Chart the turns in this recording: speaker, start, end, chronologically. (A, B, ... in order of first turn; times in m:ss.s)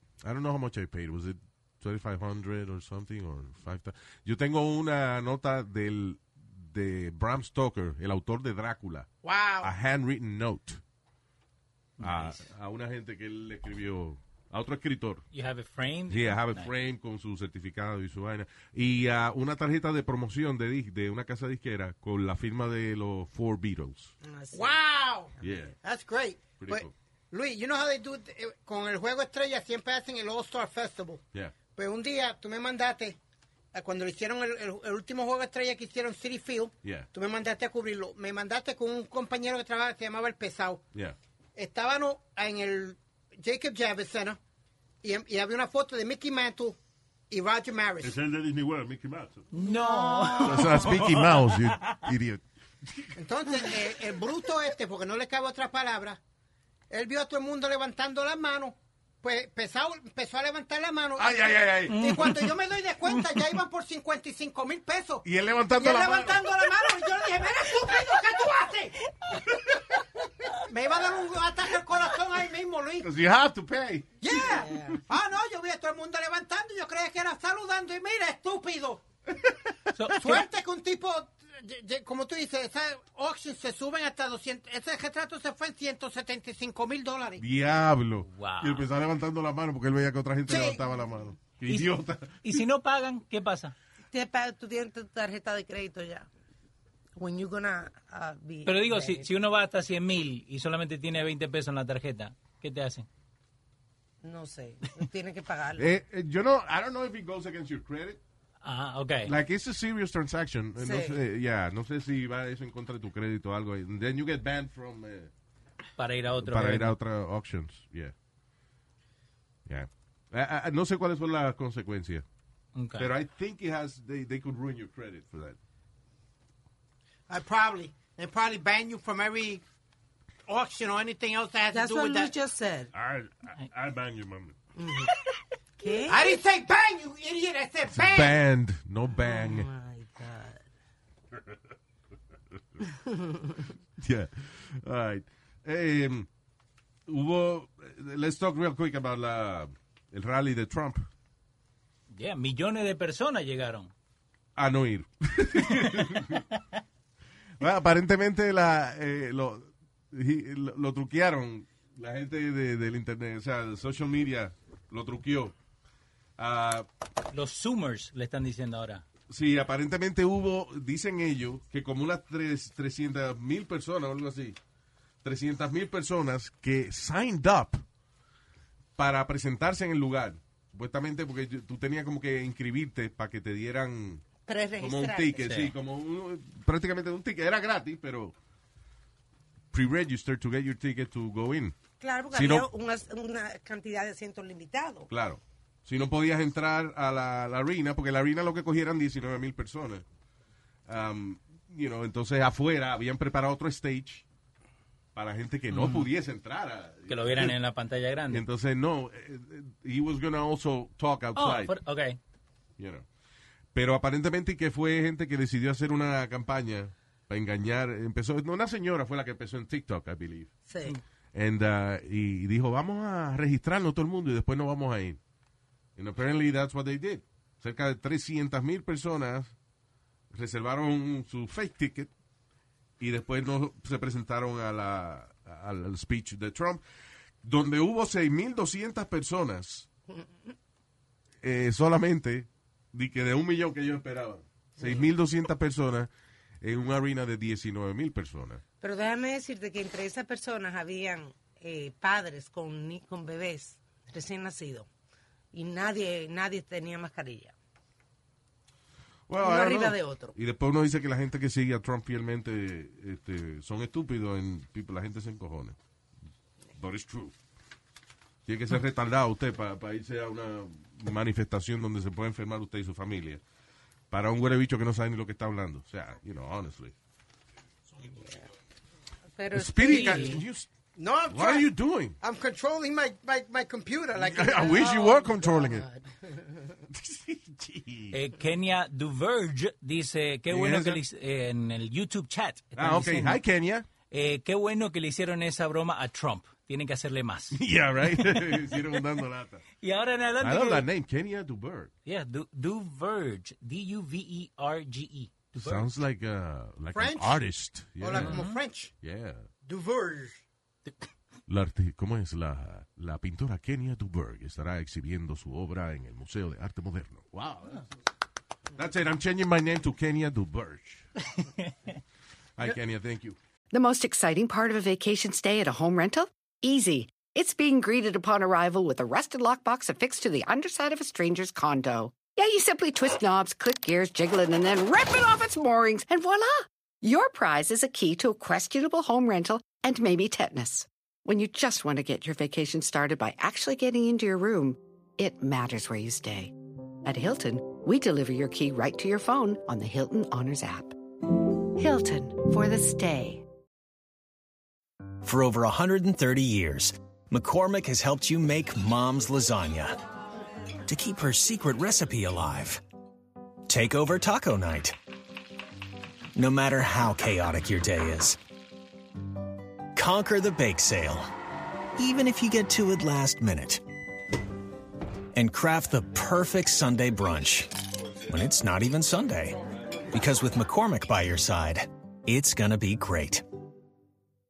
0:00.2-0:09.1 A
0:09.2-0:09.7 B
0:09.6-0:10.8 A
0:12.0-0:12.4 C
0:12.0-0:15.2 A
0:15.3-0:16.7 C
0:16.1-0:24.1 A
0:24.2-0:24.8 D
0:24.5-0:33.2 B
0:25.4-0:25.7 D
0:25.4-0:25.7 A
0:26.6-0:26.9 A
0:33.7-0:40.8 B
0:36.8-0:37.1 A
0:41.6-0:44.4 B
0:45.0-0:46.8 B
0:47.3-0:48.2 B
0:48.0-0:49.5 E
0:49.5-0:52.0 C
0:49.6-0:50.8 B
0:49.9-0:50.3 D
0:50.4-0:53.1 A
0:53.2-0:56.2 B
0:56.9-1:05.2 B
1:01.2-1:02.1 A
1:01.9-1:02.5 C
1:05.2-1:06.4 A
1:05.7-1:09.0 B
1:10.6-1:13.1 B
1:13.0-1:14.1 A
1:14.2-1:19.0 B
1:14.2-1:15.0 D
1:19.4-1:19.9 A
1:20.0-1:20.4 C
1:20.1-1:27.4 B
1:27.4-1:32.6 A
1:28.3-1:28.8 C
1:30.5-1:30.8 B
1:32.4-1:33.7 C
1:34.1-1:36.3 D
1:37.2-1:39.3 D
1:38.6-1:43.1 C
1:44.2-1:46.0 D
1:45.8-1:48.2 A
1:48.6-1:49.3 C
1:49.2-1:55.3 A
1:50.8-1:51.2 D
1:56.0-1:56.9 C
1:56.3-1:58.1 A
1:59.7-2:02.2 A
2:02.8-2:03.1 C
2:03.0-2:05.6 A
2:07.3-2:09.6 B
2:10.5-2:12.3 B
2:11.7-2:12.9 D
2:12.9-2:14.5 E
2:14.8-2:15.1 D
2:15.8-2:16.4 D
2:15.8-2:18.3 B
2:17.9-2:19.7 A
2:19.2-2:20.6 D
2:22.9-2:23.6 D
2:24.0-2:26.3 A
2:27.1-2:31.1 A
2:32.1-2:33.9 C
2:34.6-2:36.4 A
2:35.8-2:36.4 C
2:37.6-2:45.5 A
2:46.4-2:46.9 A
2:47.3-2:49.0 C
2:49.3-2:54.6 A
2:55.2-2:57.8 A
2:59.0-3:04.2 A
3:04.4-3:05.5 D
3:04.8-3:08.3 A
3:05.4-3:05.7 C
3:09.7-3:11.7 A
3:12.0-3:15.1 D
3:12.3-3:12.7 A
3:15.1-3:20.0 A
3:20.9-3:24.2 A
3:25.1-3:27.6 A
3:25.7-3:26.1 C
3:27.1-3:28.4 C
3:28.3-3:31.7 A
3:31.4-3:32.2 C
3:32.8-3:33.0 A
3:33.7-3:40.5 A
3:40.6-3:41.0 D
3:41.3-3:45.2 A
3:46.0-3:49.5 A
3:50.3-3:52.1 A
3:53.0-3:56.8 A
3:57.4-3:59.9 A
4:01.4-4:06.1 A
4:06.6-4:08.6 A
4:08.8-4:14.9 D
4:15.5-4:17.5 D
4:19.3-4:25.8 A
4:19.4-4:20.4 D
4:26.8-4:27.3 A
4:28.4-4:33.4 A
4:34.1-4:36.9 A
4:38.0-4:38.5 D
4:39.3-4:40.4 D
4:39.5-4:40.7 A
4:39.9-4:40.3 C
4:41.0-4:44.7 B
4:41.3-4:42.2 A
4:44.2-4:45.8 A
4:44.4-4:46.8 D
4:46.9-4:48.2 A
4:48.1-4:53.4 C
4:50.5-4:51.0 A
4:52.7-4:53.9 A
4:54.1-4:58.9 C
4:57.5-4:59.6 A
4:59.8-5:00.8 C
5:00.4-5:01.9 A
5:02.0-5:05.8 C
5:05.6-5:08.4 A
5:06.9-5:07.4 B
5:08.0-5:08.9 B
5:08.1-5:08.6 C
5:09.0-5:09.5 A
5:09.6-5:10.4 B
5:11.5-5:17.9 A
5:18.7-5:21.0 A
5:21.4-5:21.7 C
5:22.6-5:23.4 A
5:23.7-5:50.9 F
5:51.8-5:53.4 F
5:55.2-6:00.0 G
6:00.9-6:02.8 G
6:03.7-6:04.9 G
6:06.3-6:08.4 G
6:09.9-6:11.3 G
6:12.0-6:13.8 G
6:15.3-6:17.7 G
6:18.3-6:19.6 G
6:20.1-6:23.4 G